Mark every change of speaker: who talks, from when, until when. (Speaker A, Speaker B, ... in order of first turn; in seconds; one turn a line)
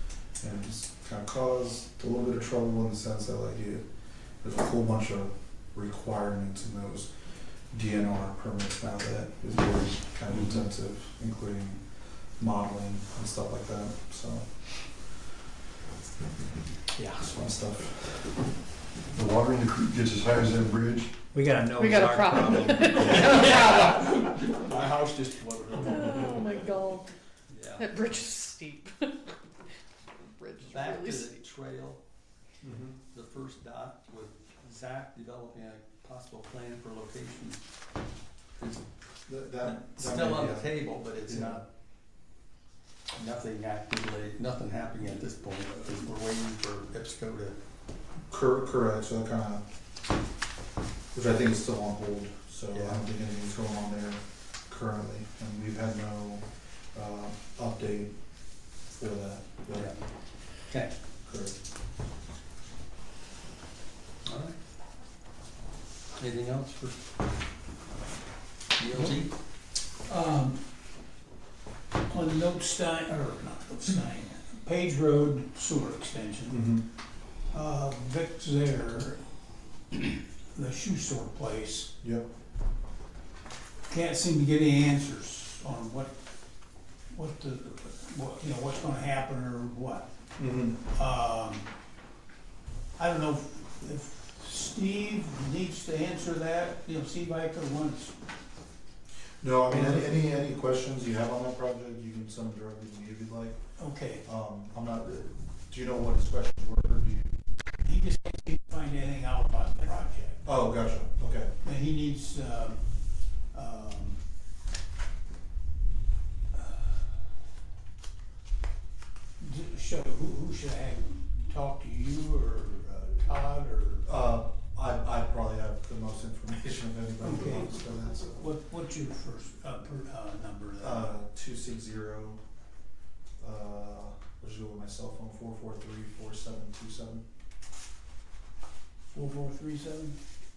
Speaker A: 0.4-3.9
Speaker A: 4.4-14.5
Speaker B: 10.3-10.6
Speaker B: 17.0-17.3
Speaker A: 17.2-18.5
Speaker C: 19.1-21.1
Speaker D: 21.3-23.3
Speaker E: 21.8-24.1
Speaker B: 23.0-26.7
Speaker E: 25.8-27.1
Speaker B: 27.5-28.1
Speaker E: 27.8-29.4
Speaker E: 30.2-31.4
Speaker B: 30.7-32.0
Speaker A: 32.6-32.9
Speaker B: 33.1-37.6
Speaker B: 38.6-38.8
Speaker A: 39.3-41.6
Speaker B: 39.6-41.6
Speaker B: 43.1-47.6
Speaker A: 48.3-49.6
Speaker A: 51.1-59.9
Speaker B: 52.7-53.0
Speaker B: 59.7-60.0
Speaker B: 60.6-60.9
Speaker A: 61.2-61.5
Speaker B: 64.2-64.5
Speaker B: 66.2-67.0
Speaker B: 68.8-69.3
Speaker F: 70.0-70.6
Speaker F: 72.1-76.8
Speaker A: 76.5-76.8
Speaker F: 77.5-79.2
Speaker F: 80.5-81.9
Speaker A: 82.0-82.3
Speaker F: 83.9-86.2
Speaker F: 87.1-90.1
Speaker A: 90.4-90.8
Speaker F: 90.9-91.7
Speaker F: 93.0-98.2
Speaker A: 99.4-103.6
Speaker F: 99.7-100.2
Speaker F: 103.8-104.3
Speaker A: 104.2-107.4
Speaker F: 107.8-110.5
Speaker A: 110.5-111.5
Speaker F: 111.6-112.8
Speaker F: 113.5-114.2
Speaker F: 119.4-124.1
Speaker A: 124.0-128.5
Speaker F: 127.2-131.1
Speaker A: 130.8-132.4
Speaker A: 133.4-137.2
Speaker F: 139.1-140.2